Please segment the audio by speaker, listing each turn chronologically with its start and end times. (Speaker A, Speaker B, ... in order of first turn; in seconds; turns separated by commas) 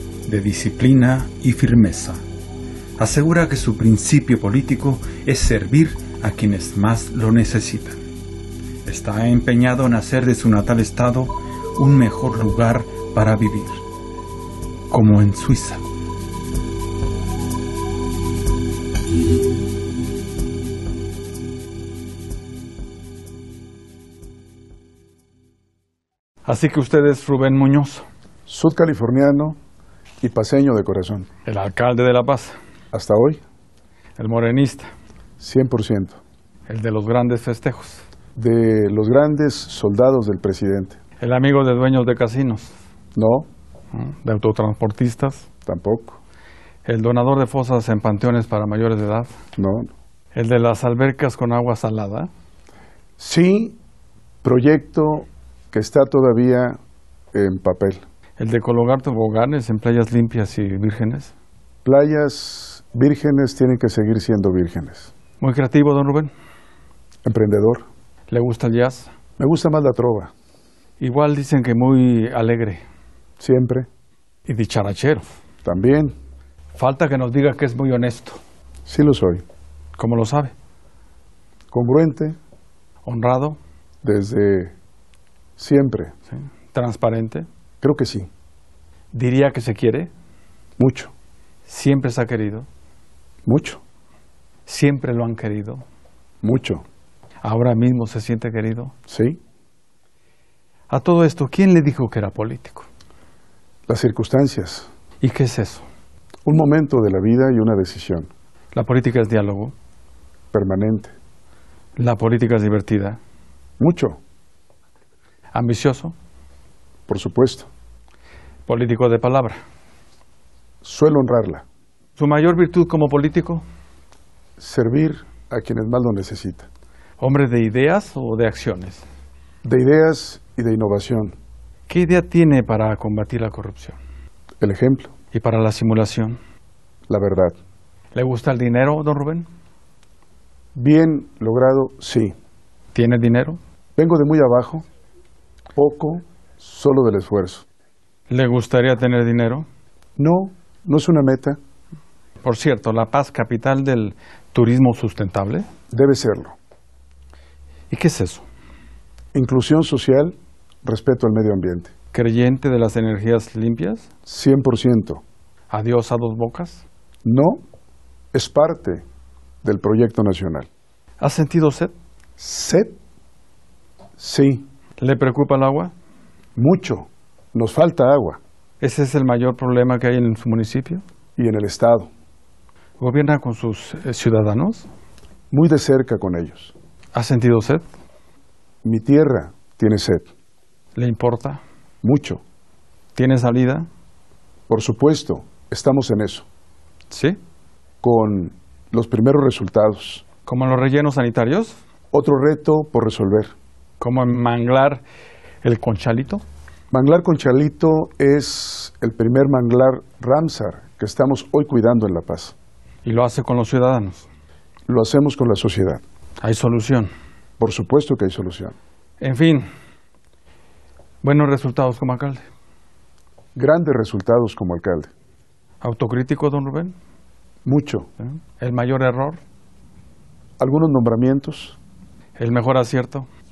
Speaker A: 0.3-2.2, Speaker A: 3.0-8.0, Speaker A: 8.8-13.8, Speaker A: 14.9-15.8, Speaker A: 26.4-28.1, Speaker B: 28.5-29.6, Speaker B: 30.2-31.3, Speaker A: 31.5-32.6, Speaker B: 32.9-33.4, Speaker A: 34.2-34.9, Speaker B: 35.4-36.2, Speaker A: 36.7-38.0, Speaker B: 38.4-41.0, Speaker A: 41.2-42.7, Speaker B: 43.1-43.5, Speaker A: 43.9-45.5, Speaker B: 45.7-46.2, Speaker A: 46.9-49.3, Speaker B: 49.6-49.9, Speaker A: 50.3-52.3, Speaker B: 53.2-53.8, Speaker B: 54.4-56.8, Speaker B: 57.3-58.0, Speaker A: 58.4-61.3, Speaker B: 61.8-65.1, Speaker A: 65.4-66.3, Speaker B: 67.2-67.9, Speaker A: 68.3-69.1, Speaker B: 69.4-70.3, Speaker A: 71.0-72.8, Speaker B: 73.4-73.9, Speaker A: 74.5-75.2, Speaker B: 75.7-76.1, Speaker A: 76.8-78.4, Speaker B: 78.9-79.4, Speaker A: 80.0-80.5, Speaker B: 81.7-82.4, Speaker A: 83.0-83.6, Speaker B: 84.0-84.7, Speaker B: 85.6-86.1, Speaker A: 86.7-87.5, Speaker B: 87.8-88.3, Speaker A: 89.1-90.1, Speaker B: 90.8-91.1, Speaker A: 91.7-92.7, Speaker B: 93.5-93.8, Speaker A: 94.7-95.8, Speaker B: 96.4-96.8, Speaker A: 97.4-98.9, Speaker B: 99.1-99.4, Speaker A: 100.9-102.9, Speaker B: 103.9-104.9, Speaker A: 105.2-105.9, Speaker B: 106.5-108.3, Speaker A: 108.7-109.7, Speaker B: 110.5-111.1, Speaker A: 112.0-113.2, Speaker B: 113.8-114.2, Speaker A: 115.5-116.1, Speaker B: 117.1-117.7, Speaker A: 118.7-119.6, Speaker B: 120.8-121.7, Speaker A: 122.2-123.6, Speaker B: 124.6-126.7, Speaker A: 127.2-129.0, Speaker B: 129.6-131.3, Speaker A: 131.9-134.0, Speaker B: 134.6-135.1, Speaker A: 135.3-136.4, Speaker B: 137.1-137.6, Speaker A: 138.1-139.5, Speaker B: 140.8-142.3, Speaker A: 142.9-143.6, Speaker B: 144.0-144.8, Speaker B: 145.8-147.7, Speaker A: 148.3-149.7, Speaker B: 150.2-151.6, Speaker A: 152.4-155.7, Speaker B: 155.9-156.6, Speaker A: 157.9-158.5, Speaker B: 159.3-161.9, Speaker A: 162.1-164.1, Speaker B: 164.3-165.2, Speaker A: 165.7-166.8, Speaker B: 167.2-167.6, Speaker B: 168.3-169.0, Speaker B: 169.6-170.7, Speaker A: 171.2-171.9, Speaker B: 172.4-173.0, Speaker B: 174.2-174.7, Speaker A: 175.0-175.9, Speaker B: 176.6-178.4, Speaker A: 178.8-181.0, Speaker B: 181.4-182.1, Speaker A: 183.0-184.9, Speaker B: 185.5-186.7, Speaker A: 187.1-187.8, Speaker B: 188.8-190.3, Speaker A: 190.9-191.6, Speaker B: 192.0-192.4, Speaker A: 193.2-193.9, Speaker B: 194.7-196.5, Speaker A: 197.1-197.4, Speaker B: 198.0-200.2, Speaker A: 200.5-201.8, Speaker B: 202.1-203.5, Speaker A: 204.0-205.0, Speaker A: 205.6-206.4, Speaker B: 206.9-212.6, Speaker A: 213.0-214.3, Speaker B: 214.9-216.0, Speaker A: 216.4-217.1, Speaker B: 217.6-218.8, Speaker A: 219.2-219.7, Speaker A: 221.2-222.4, Speaker B: 223.6-225.1, Speaker A: 225.8-226.9, Speaker B: 227.7-228.1, Speaker A: 228.6-229.4, Speaker B: 230.6-231.8, Speaker A: 232.4-233.3